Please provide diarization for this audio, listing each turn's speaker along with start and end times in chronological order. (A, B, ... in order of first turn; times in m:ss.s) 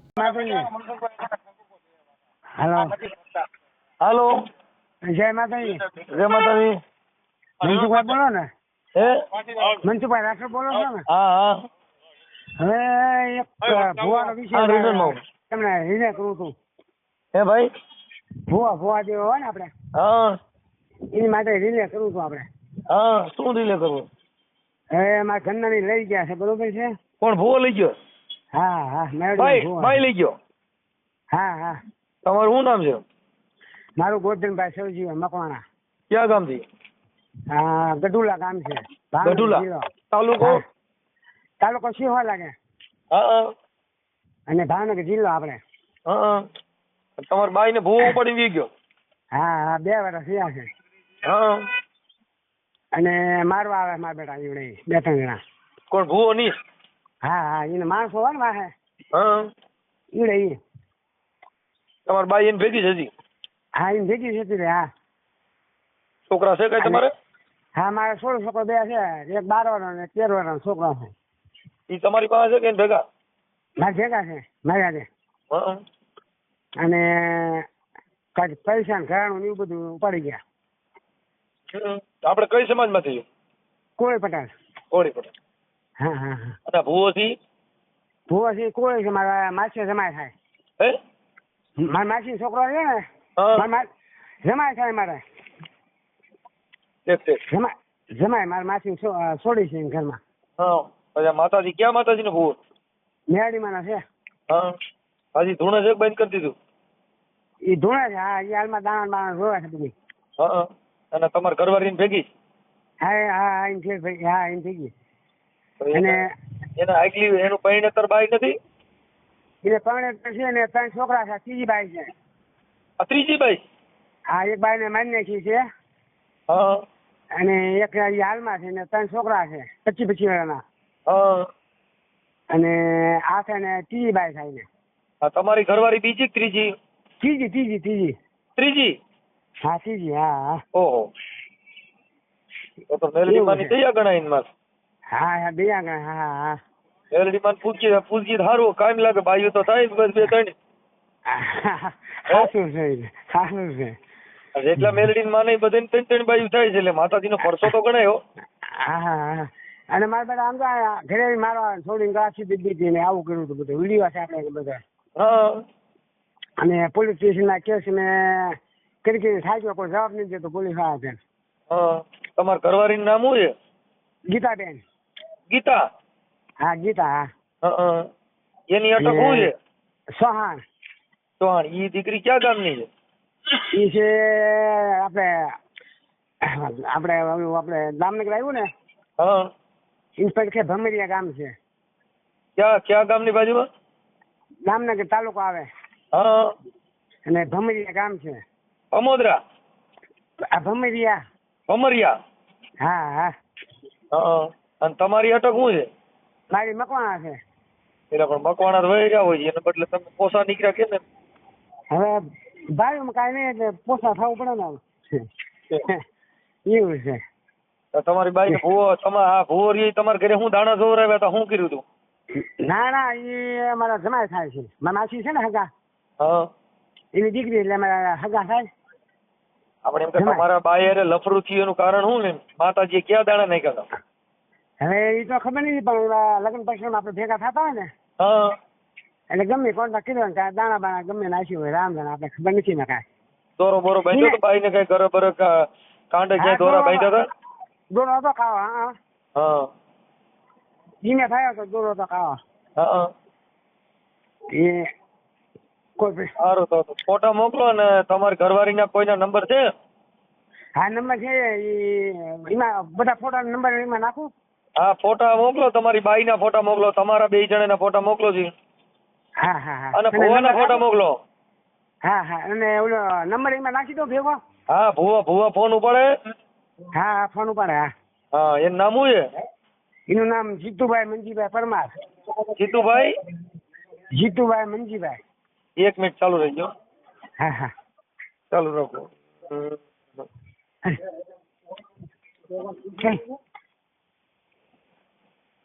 0:00.2-0:00.7 A
0:02.6-0:03.0 A
0:04.0-0:04.4 B
0:05.1-0:05.8 A
0:06.0-0:06.8 B
0:07.6-0:08.5 A
0:09.8-0:11.0 A
0:11.1-0:11.6 B
0:12.6-0:16.5 A
0:14.5-0:15.2 B
0:17.4-0:17.7 B
0:18.5-0:19.7 A
0:20.0-0:20.4 B
0:21.1-0:22.5 A
0:22.9-0:24.1 B
0:24.9-0:26.9 A
0:27.2-0:27.9 B
0:28.6-0:30.0 A
0:29.4-0:30.4 B
0:31.3-0:31.8 A
0:32.2-0:33.0 B
0:34.0-0:35.6 A
0:36.1-0:36.6 B
0:37.5-0:40.6 A
0:39.2-0:40.6 B
0:41.6-0:42.5 A
0:43.1-0:43.4 B
0:44.5-0:45.6 A
0:46.1-0:46.4 B
0:47.2-0:48.7 B
0:49.4-0:50.7 A
0:51.2-0:51.6 B
0:52.9-0:55.4 A
0:55.9-0:56.5 B
0:57.2-0:58.7 A
0:59.1-0:59.5 B
1:00.2-1:00.6 A
1:02.1-1:03.1 B
1:03.8-1:04.9 A
1:06.3-1:07.1 B
1:07.8-1:11.1 A
1:11.9-1:13.0 B
1:13.8-1:15.1 A
1:15.5-1:15.8 B
1:16.8-1:17.6 A
1:18.4-1:20.4 A
1:21.7-1:23.2 B
1:24.0-1:24.5 A
1:24.9-1:25.3 B
1:26.0-1:26.6 A
1:26.7-1:27.3 B
1:28.3-1:30.3 A
1:31.8-1:33.0 A
1:33.4-1:33.6 B
1:33.5-1:33.8 A
1:34.4-1:35.2 A
1:37.1-1:37.4 B
1:37.5-1:40.2 A
1:40.6-1:42.6 B
1:43.3-1:44.0 A
1:45.4-1:46.5 B
1:47.7-1:50.0 A
1:50.4-1:52.3 B
1:53.0-1:54.9 A
1:55.8-1:56.2 B
1:55.9-1:56.3 A
1:56.8-1:58.6 B
1:59.6-2:02.1 A
2:03.0-2:03.6 B
2:04.3-2:05.6 A
2:06.5-2:06.8 B
2:07.4-2:10.6 A
2:11.1-2:11.5 B
2:12.5-2:14.7 A
2:15.2-2:16.7 B
2:17.2-2:18.2 A
2:18.6-2:18.9 B
2:19.6-2:20.6 A
2:20.7-2:21.1 B
2:22.9-2:24.5 B
2:23.3-2:23.8 A
2:25.1-2:26.6 A
2:27.1-2:30.6 B
2:31.3-2:34.0 A
2:34.6-2:38.2 B
2:38.7-2:44.8 A
2:45.2-2:45.6 B
2:46.6-2:51.2 A
2:51.7-2:53.5 B
2:54.3-2:54.8 A
2:55.5-2:55.8 B
2:56.6-2:57.3 A
2:57.6-2:58.0 B
2:58.7-2:59.5 B
2:59.0-2:59.5 A
3:00.2-3:00.6 A
3:01.4-3:02.9 B
3:03.7-3:05.5 A
3:06.5-3:08.7 A
3:09.2-3:09.5 B
3:10.2-3:11.5 A
3:12.6-3:13.7 B
3:14.7-3:15.7 A
3:16.1-3:16.5 B
3:17.3-3:18.4 A
3:18.9-3:19.4 B
3:20.5-3:21.2 A
3:21.7-3:22.1 B
3:22.8-3:23.3 A
3:24.1-3:25.9 B
3:26.5-3:27.4 A
3:28.1-3:31.0 B
3:31.9-3:32.2 A
3:32.7-3:35.2 A
3:36.7-3:37.2 A
3:37.9-3:41.8 B
3:42.4-3:45.7 A
3:47.2-3:48.7 A
3:49.8-3:53.9 B
3:50.2-3:50.4 A
3:54.8-3:57.9 A
3:58.2-3:58.5 B
3:59.3-4:03.0 A
4:03.6-4:05.5 B
4:04.1-4:04.4 A
4:06.1-4:07.2 B
4:06.4-4:07.2 A
4:07.9-4:08.9 A
4:09.4-4:09.7 B
4:11.0-4:12.4 A
4:12.8-4:13.1 B
4:14.5-4:14.8 A
4:16.0-4:16.3 A
4:16.4-4:19.6 B
4:20.8-4:24.3 A
4:24.8-4:28.5 B
4:29.4-4:30.8 A
4:30.0-4:31.2 B
4:32.0-4:34.4 A
4:34.7-4:36.1 B
4:37.0-4:37.9 A
4:38.3-4:39.2 B
4:40.1-4:41.9 A
4:42.6-4:43.2 B
4:44.2-4:45.2 A
4:45.8-4:46.7 B
4:47.4-4:47.7 A
4:48.5-4:50.2 B
4:52.7-4:53.2 A